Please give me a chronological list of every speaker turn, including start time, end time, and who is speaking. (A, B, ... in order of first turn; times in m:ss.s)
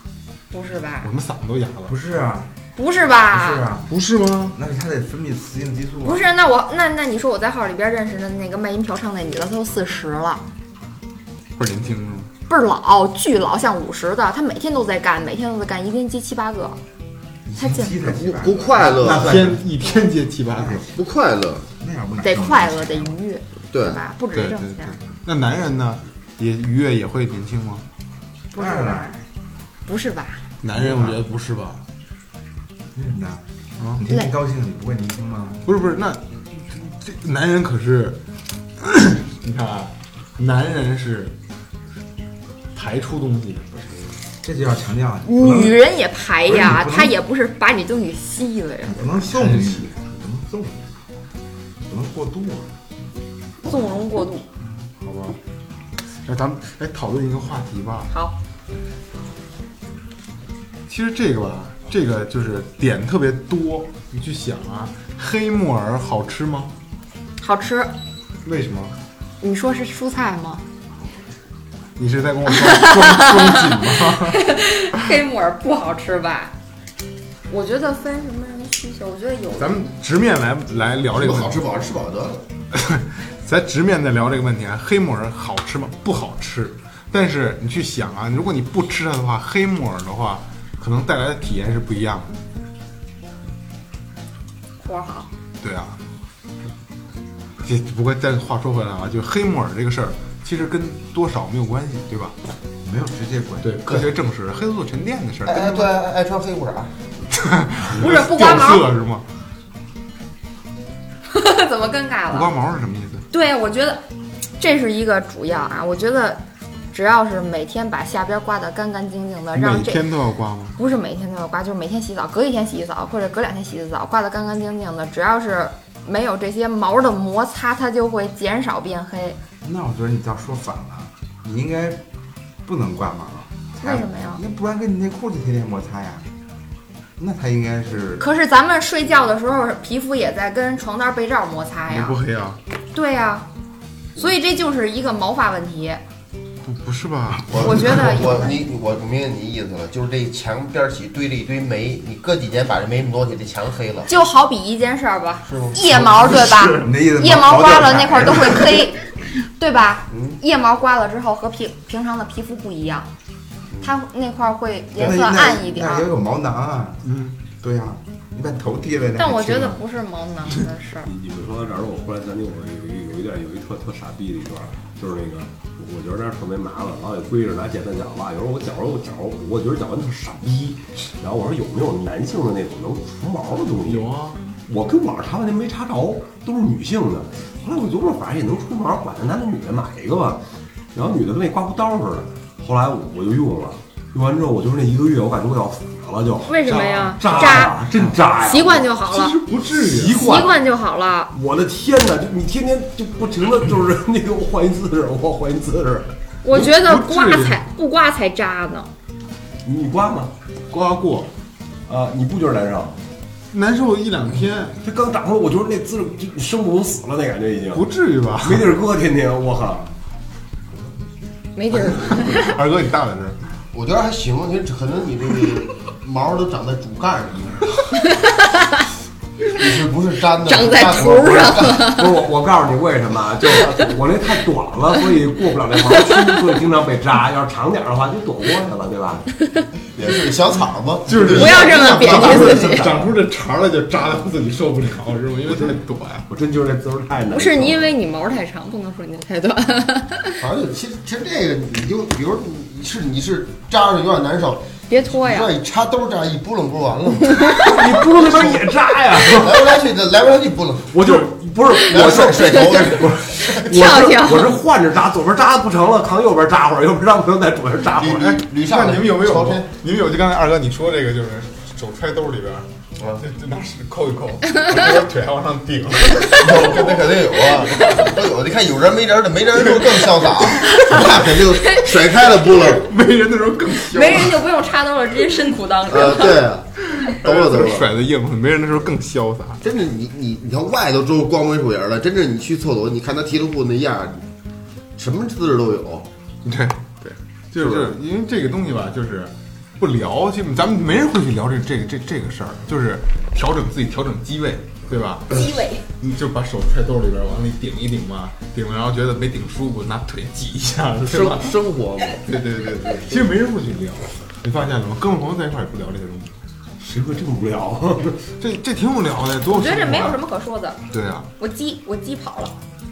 0:00.5-0:01.1 A
0:01.0-0:01.9 B
0:01.9-0:02.5 C
0:02.8-0:03.6 A
0:03.3-0:03.9 C
0:03.9-0:04.6 B
0:04.5-0:06.2 C
0:06.0-0:10.4 A
0:11.6-0:12.3 B
0:12.5-0:16.8 A
0:17.5-0:19.6 C
0:17.5-0:17.9 A
0:18.0-0:19.4 D
0:19.0-0:20.8 B
0:20.5-0:20.9 C
0:20.9-0:21.7 D
0:21.8-0:23.2 C
0:22.2-0:25.0 A
0:23.7-0:24.0 D
0:24.3-0:27.8 B
0:28.5-0:29.2 C
0:28.5-0:29.2 A
0:29.8-0:30.4 A
0:30.6-0:31.8 B
0:30.7-0:31.2 C
0:32.9-0:35.7 C
0:33.8-0:34.0 B
0:35.6-0:38.2 B
0:38.8-0:41.3 B
0:42.7-0:43.9 B
0:44.4-0:45.8 C
0:45.2-0:49.3 A
0:46.4-0:47.2 C
0:48.8-0:50.9 C
0:49.3-0:49.9 B
0:51.9-0:52.7 C
0:53.6-0:54.4 A
0:55.0-0:55.4 B
0:56.2-0:58.1 B
1:00.9-1:06.7 B
1:07.4-1:07.9 A
1:08.4-1:09.0 B
1:09.4-1:10.6 A
1:12.0-1:15.1 B
1:12.5-1:16.5 A
1:17.5-1:19.9 A
1:19.6-1:21.6 B
1:21.1-1:22.4 D
1:22.7-1:32.4 B
1:34.8-1:35.3 A
1:35.6-1:36.0 B
1:37.6-1:42.3 B
1:42.8-1:44.1 C
1:43.6-1:45.9 B
1:45.5-1:47.0 D
1:47.3-1:49.2 B
1:47.9-1:48.9 A
1:51.3-1:52.5 A
1:52.3-1:53.2 B
1:53.3-1:54.0 A
1:54.6-2:00.1 A
1:59.5-2:00.8 B
2:00.8-2:09.4 A
2:09.6-2:12.0 C
2:12.6-2:16.3 C
2:13.8-2:14.4 A
2:17.2-2:18.2 C
2:18.2-2:22.2 A
2:21.9-2:22.6 B
2:22.9-2:23.5 A
2:24.2-2:26.0 A
2:26.6-2:28.4 B
2:27.6-2:34.1 D
2:27.6-2:28.5 A
2:34.0-2:39.0 A
2:35.5-2:35.8 D
2:36.0-2:38.9 C
2:39.6-2:43.1 A
2:43.8-2:46.1 A
2:45.0-2:49.8 C
2:47.0-2:47.4 B
2:49.2-2:51.1 A
2:51.1-3:04.1 E
3:03.8-3:04.4 B
3:04.6-3:10.4 E
3:10.9-3:18.8 E
3:16.5-3:17.8 A
3:17.2-3:18.2 B
3:18.4-3:19.4 A
3:19.0-3:20.2 B
3:19.6-3:20.6 E
3:20.1-3:21.3 A
3:21.3-3:26.1 E
3:26.4-3:28.9 A
3:26.5-3:27.6 B
3:29.6-3:30.3 E
3:30.7-3:31.3 B
3:31.9-3:33.0 E
3:33.5-3:34.8 B
3:34.8-3:37.9 E
3:37.7-3:38.8 B
3:38.4-3:39.9 E
3:41.5-3:42.6 A
3:41.7-3:43.4 B
3:43.7-3:47.8 D
3:47.9-3:48.9 A
3:49.5-3:51.9 D
3:50.4-3:52.2 A
3:51.1-3:59.2 E
3:59.4-3:59.7 A
3:59.9-4:03.1 D
4:01.1-4:06.3 B
4:01.3-4:02.8 A
4:02.4-4:03.1 E
4:05.5-4:07.9 E
4:07.3-4:10.4 A
4:10.4-4:18.6 D
4:14.9-4:15.5 A
4:17.5-4:19.9 E
4:19.2-4:21.0 D
4:20.9-4:28.4 E
4:21.0-4:21.3 B
4:21.9-4:23.5 D
4:21.9-4:22.6 B
4:23.4-4:24.5 A
4:28.0-4:29.7 D
4:28.2-4:38.1 B
4:36.3-4:42.9 D
4:39.6-4:41.4 B
4:42.5-4:44.5 B
4:43.9-4:46.5 A
4:45.9-4:47.9 D
4:46.8-4:49.6 B
4:49.6-4:54.2 D
4:55.0-4:56.1 D
4:56.4-5:11.6 B
4:57.6-4:58.0 D
5:05.3-5:05.8 A
5:11.0-5:12.4 D
5:12.2-5:16.3 B
5:12.9-5:13.3 D
5:16.8-5:18.2 E
5:18.4-5:20.2 B
5:19.4-5:20.8 A
5:20.9-5:21.3 B
5:21.4-5:22.6 A